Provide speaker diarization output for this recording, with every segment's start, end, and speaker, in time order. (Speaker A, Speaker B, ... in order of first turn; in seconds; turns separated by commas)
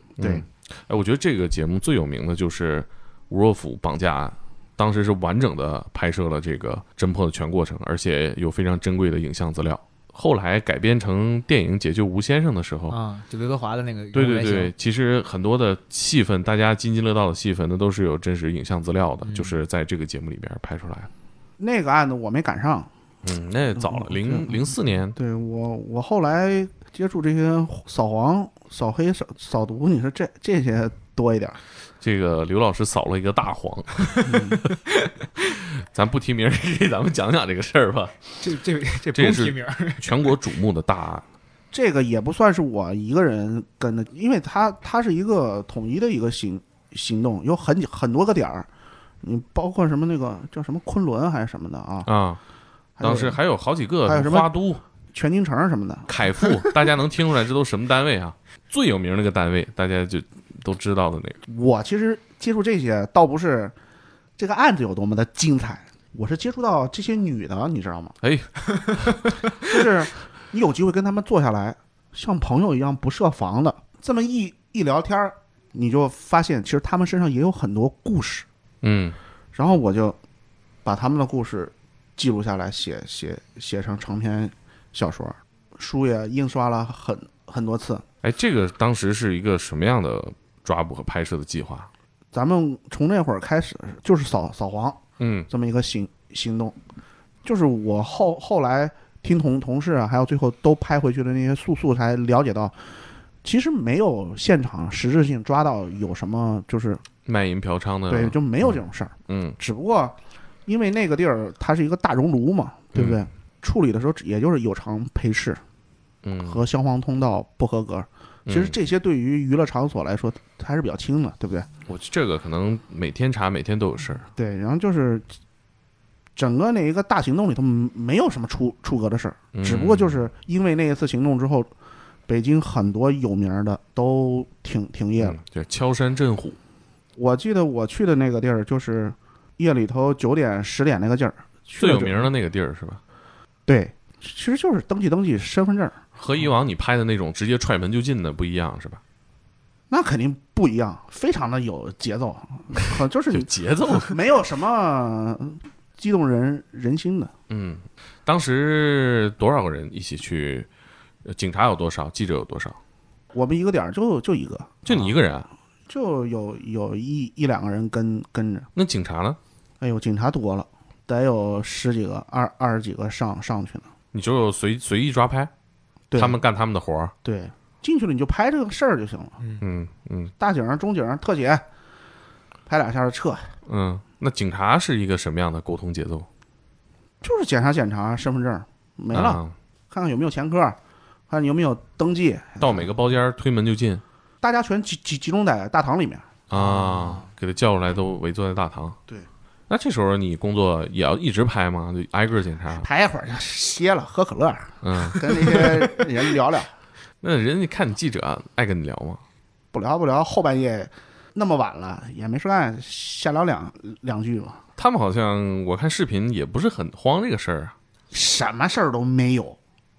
Speaker A: 0.2-0.4, Speaker B: 0.2-13.0, Speaker C: 12.9-14.7, Speaker B: 14.1-21.1, Speaker C: 19.2-19.5, Speaker A: 21.6-22.9, Speaker B: 23.2-25.1, Speaker A: 23.8-24.6, Speaker A: 25.1-31.6, Speaker B: 32.0-34.6, Speaker A: 34.2-34.6, Speaker B: 35.4-38.4, Speaker C: 38.4-40.2, Speaker B: 39.1-41.2, Speaker A: 41.7-48.7, Speaker A: 49.2-52.1, Speaker B: 52.0-52.4, Speaker A: 53.0-53.4, Speaker B: 53.0-54.8, Speaker A: 54.0-54.5, Speaker A: 55.1-56.1, Speaker B: 56.1-61.4, Speaker A: 61.5-63.7, Speaker A: 64.4-68.1, Speaker B: 68.2-69.2, Speaker A: 69.6-78.5, Speaker B: 78.8-79.2, Speaker A: 79.5-80.2, Speaker A: 80.8-88.0, Speaker B: 88.2-91.9, Speaker A: 92.3-96.8, Speaker B: 95.2-95.5, Speaker A: 97.4-102.7, Speaker A: 103.4-107.0, Speaker B: 107.2-108.3, Speaker A: 108.1-110.1, Speaker B: 109.3-109.6, Speaker A: 110.7-115.6, Speaker B: 112.9-113.2, Speaker B: 116.2-116.6, Speaker A: 116.4-121.7, Speaker B: 118.5-118.7, Speaker B: 121.8-124.3, Speaker A: 124.3-125.3, Speaker A: 126.3-131.7, Speaker B: 129.5-130.2, Speaker A: 132.3-135.4, Speaker B: 135.2-136.6, Speaker A: 137.2-142.2, Speaker B: 141.8-143.0, Speaker A: 143.7-146.0, Speaker B: 146.2-149.0, Speaker A: 149.9-157.3, Speaker B: 153.3-154.2, Speaker B: 157.5-160.7, Speaker B: 161.2-162.8, Speaker A: 163.3-165.0, Speaker B: 164.8-165.5, Speaker A: 165.9-168.7, Speaker B: 168.7-169.4, Speaker A: 169.8-173.9, Speaker B: 174.1-175.5, Speaker A: 176.1-176.4, Speaker B: 176.1-177.1, Speaker A: 177.2-179.4, Speaker C: 179.4-179.6, Speaker B: 179.6-180.3, Speaker A: 180.4-181.6, Speaker A: 182.7-183.5, Speaker B: 183.7-186.3, Speaker A: 187.2-190.8, Speaker B: 189.1-189.5, Speaker A: 191.3-192.9, Speaker B: 192.6-194.0, Speaker A: 194.4-196.3, Speaker B: 196.5-199.0, Speaker C: 196.5-197.3, Speaker B: 199.7-202.9, Speaker A: 202.8-206.7, Speaker B: 204.8-205.9, Speaker B: 207.2-209.2, Speaker A: 209.7-214.6, Speaker B: 214.8-217.7, Speaker A: 218.1-219.6